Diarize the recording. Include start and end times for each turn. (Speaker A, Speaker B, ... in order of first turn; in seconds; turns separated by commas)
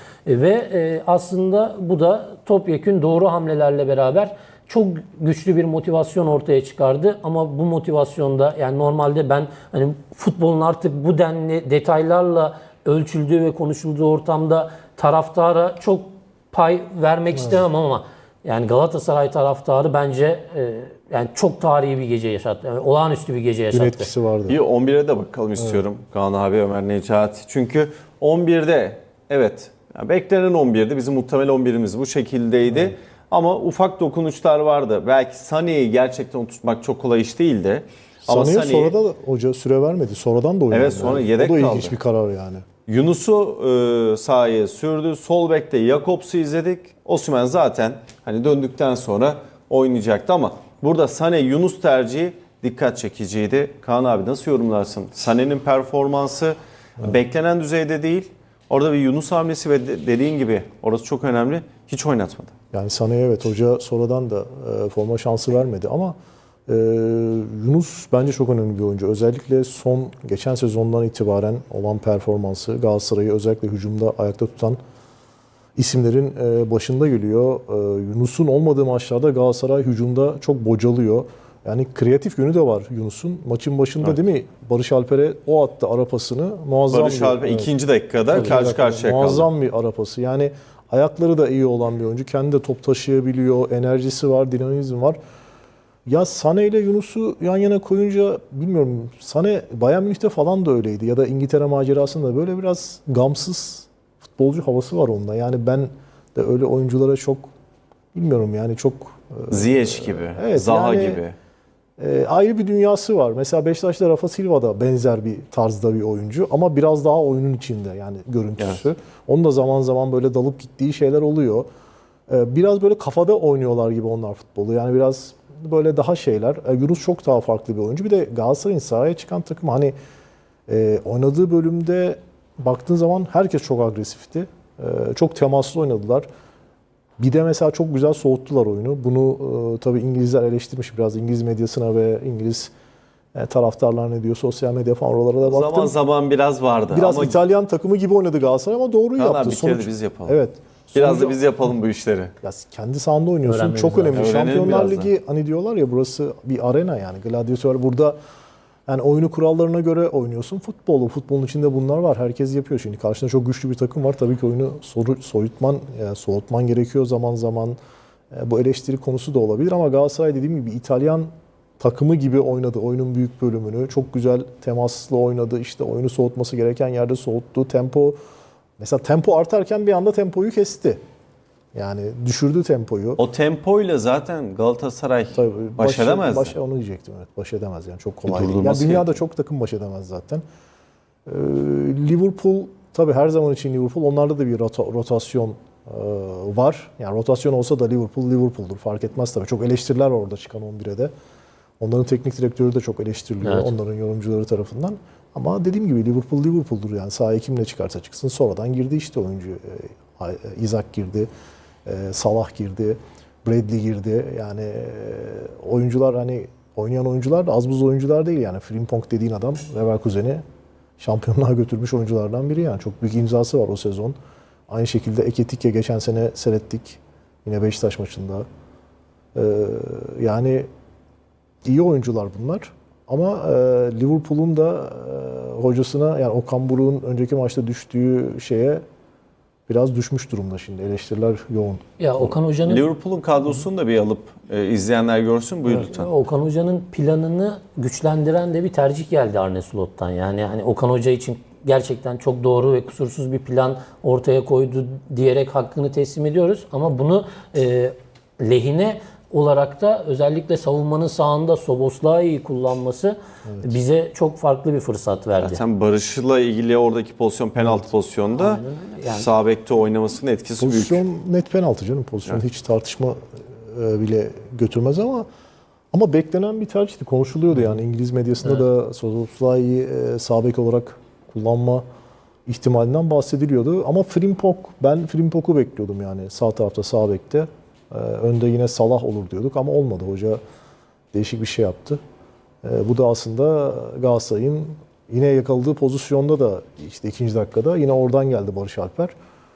Speaker A: 0.2-24.1, Speaker B: 23.7-24.6, Speaker C: 24.5-39.0, Speaker B: 38.2-42.6, Speaker C: 40.7-41.9, Speaker C: 42.9-62.5, Speaker B: 62.7-66.1, Speaker B: 66.7-74.8, Speaker B: 75.8-87.7, Speaker C: 86.9-89.5, Speaker B: 88.3-95.2, Speaker B: 96.1-107.5, Speaker B: 108.1-111.2, Speaker C: 109.5-111.3, Speaker B: 112.0-121.7, Speaker B: 122.3-129.9, Speaker B: 130.7-136.3, Speaker B: 137.2-142.7, Speaker B: 143.3-145.9, Speaker C: 145.4-147.4, Speaker B: 146.9-151.4, Speaker C: 149.2-150.4, Speaker C: 150.9-152.3, Speaker B: 152.4-158.2, Speaker A: 153.4-154.4, Speaker C: 154.1-155.1, Speaker B: 158.9-167.8, Speaker B: 168.3-178.2, Speaker B: 178.8-181.0, Speaker B: 181.7-183.2, Speaker C: 183.2-186.5, Speaker B: 185.3-190.4, Speaker C: 188.2-189.2, Speaker B: 191.2-201.1, Speaker B: 201.8-211.3, Speaker A: 203.4-203.7, Speaker B: 211.8-220.4, Speaker B: 221.0-224.2, Speaker B: 224.7-228.4, Speaker B: 229.3-230.7, Speaker B: 231.6-238.8, Speaker B: 239.7-241.8, Speaker A: 242.0-242.9, Speaker C: 242.6-246.1, Speaker A: 245.6-265.6, Speaker B: 263.4-263.7, Speaker C: 265.4-271.0, Speaker A: 268.3-269.3, Speaker B: 270.6-275.2, Speaker B: 275.9-281.8, Speaker B: 282.5-290.4, Speaker B: 291.1-292.0, Speaker B: 292.6-299.1